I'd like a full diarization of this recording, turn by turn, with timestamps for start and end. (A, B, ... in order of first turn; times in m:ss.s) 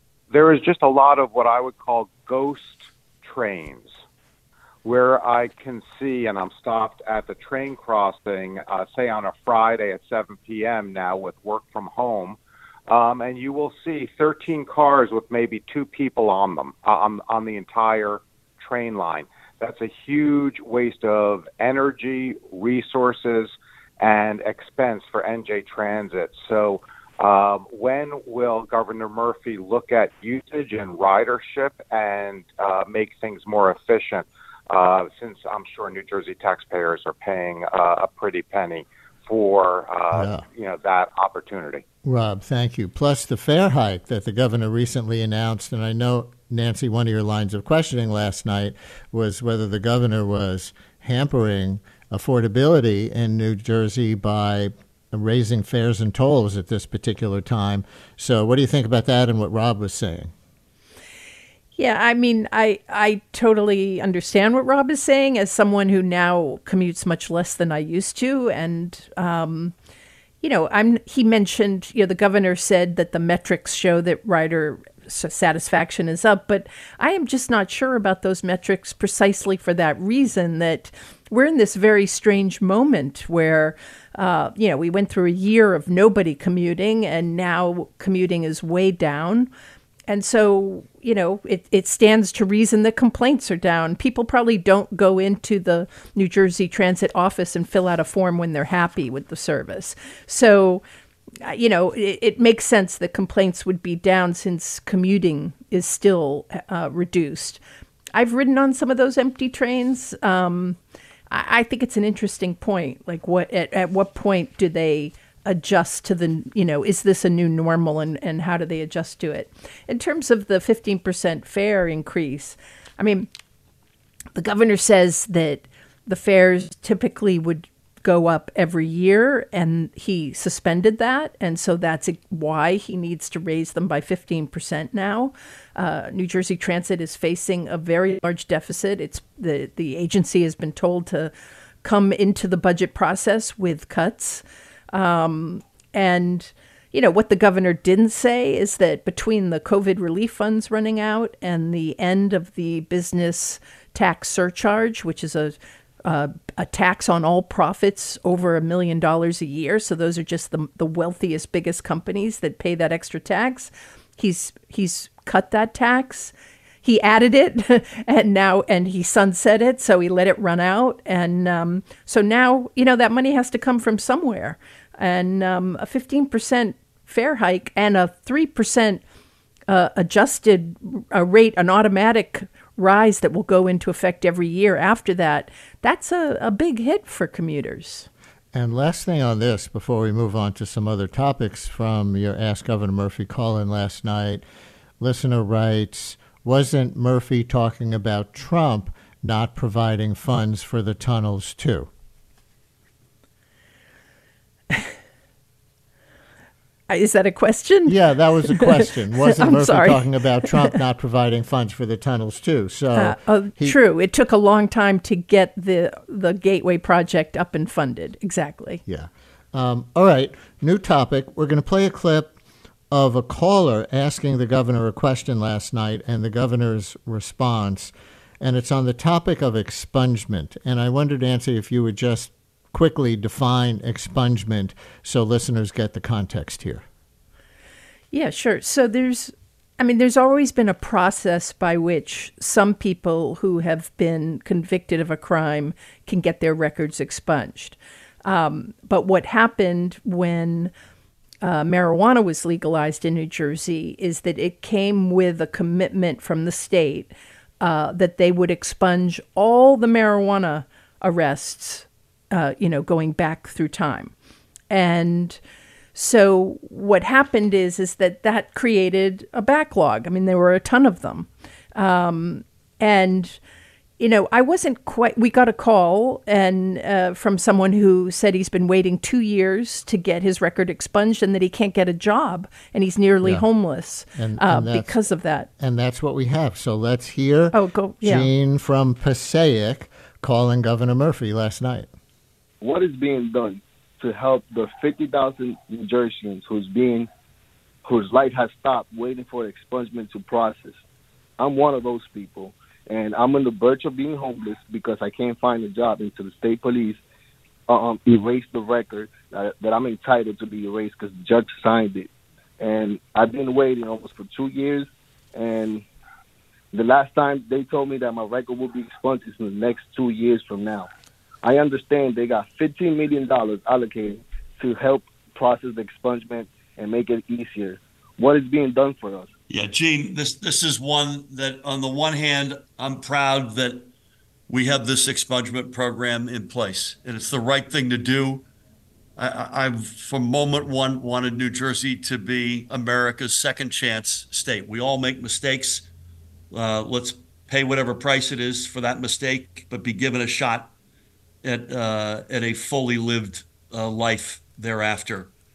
0:00.3-0:03.9 A
0:04.8-0:12.4 A
0:12.9-0:41.8 A
0:40.1-0:40.4 B
0:42.0-1:00.3 B
1:01.8-1:09.7 C
1:10.4-1:29.5 C
1:30.1-1:40.8 C
1:41.4-1:47.6 C
1:48.2-1:50.8 C
1:51.3-2:03.3 C
2:04.4-2:21.3 C
2:21.8-2:46.3 C
2:46.8-2:59.0 C
2:59.7-3:08.1 C
3:08.5-3:14.4 B
3:15.0-3:21.9 B
3:26.9-3:28.0 C
3:27.9-3:33.8 B
3:28.5-3:30.7 C
3:33.0-3:38.8 C
3:38.9-3:42.3 B
3:42.9-3:56.8 B
3:58.1-4:10.7 C
4:11.4-4:24.1 C
4:24.7-4:25.4 C
4:26.0-4:33.4 C
4:34.0-4:45.5 C
4:44.2-4:45.0 B
4:45.6-4:51.9 B
4:47.5-4:48.3 C
4:52.6-4:57.1 D
4:57.8-5:00.8 D
5:01.4-5:07.0 D
5:07.7-5:15.8 D
5:16.7-5:20.9 D
5:21.4-5:29.3 D
5:29.5-5:33.9 E
5:34.5-5:38.4 E
5:39.2-5:45.9 E
5:46.5-5:50.7 E
5:51.4-5:55.3 E